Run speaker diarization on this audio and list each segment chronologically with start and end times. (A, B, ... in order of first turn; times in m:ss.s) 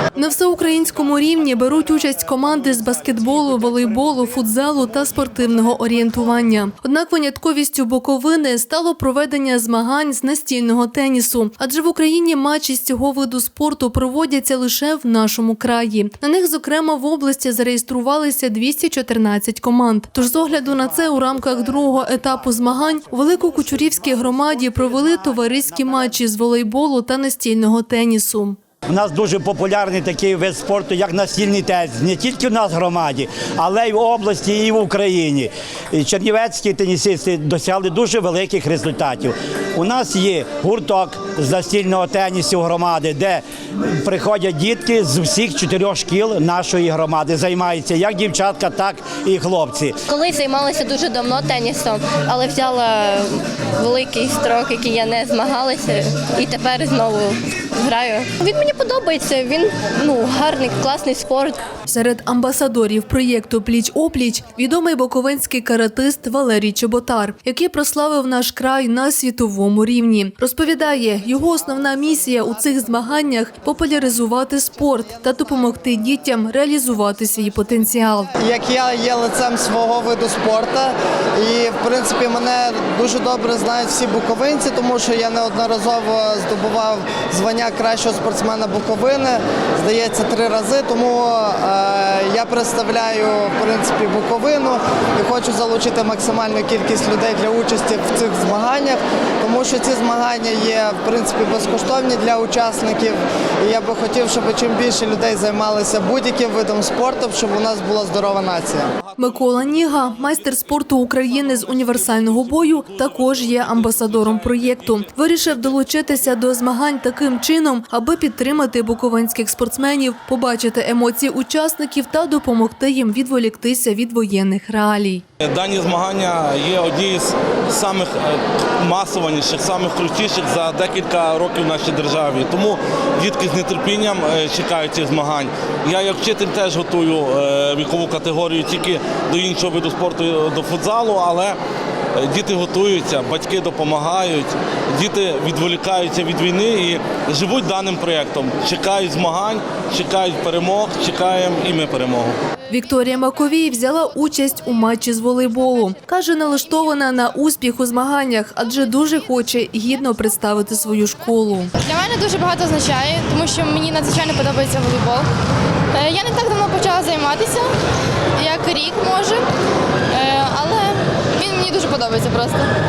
0:00.1-0:28.6 A
0:24.4-0:24.7 B
0:28.9-0:50.0 B
0:50.1-1:01.6 C
1:01.8-1:18.3 A
1:18.4-1:48.8 D
1:49.1-1:55.5 E
1:49.2-2:05.2 A
2:05.4-2:21.6 E
2:22.2-2:32.4 E
2:32.7-2:41.7 A
2:41.8-2:45.3 F
2:45.9-2:47.7 F
2:48.4-2:49.4 F
2:50.1-2:52.7 F